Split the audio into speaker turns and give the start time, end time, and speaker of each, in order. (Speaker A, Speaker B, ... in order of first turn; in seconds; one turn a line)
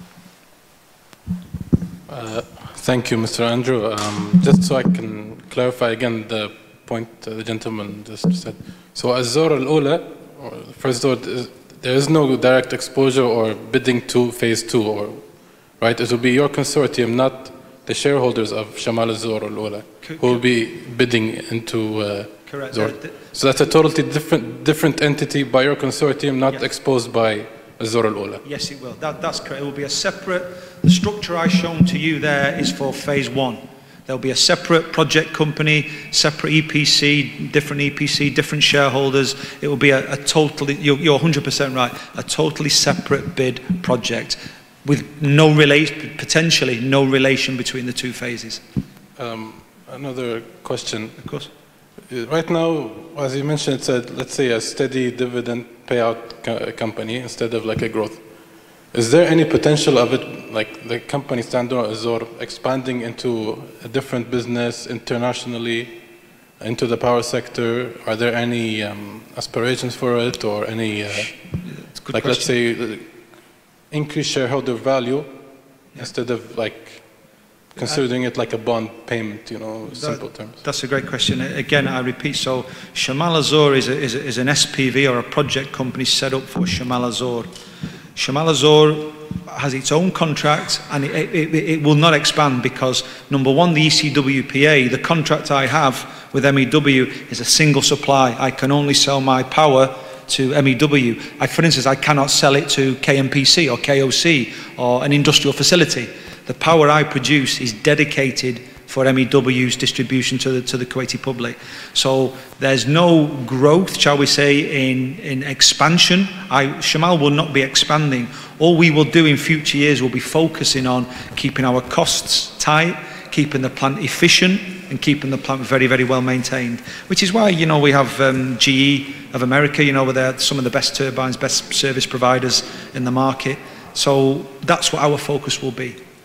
Speaker A: 2.1-15.2
Speaker A: 15.8-28.4
Speaker B: 20.0-20.4
Speaker B: 22.5-23.1
Speaker B: 28.4-48.6
Speaker A: 49.2-51.2
Speaker B: 51.2-51.5
Speaker A: 52.1-58.2
Speaker A: 58.9-65.9
Speaker A: 66.6-71.3
Speaker B: 71.9-72.5
Speaker A: 72.1-73.0
Speaker A: 73.9-75.3
Speaker A: 76.0-77.1
Speaker A: 77.8-80.6
Speaker B: 79.9-87.5
Speaker B: 88.2-136.0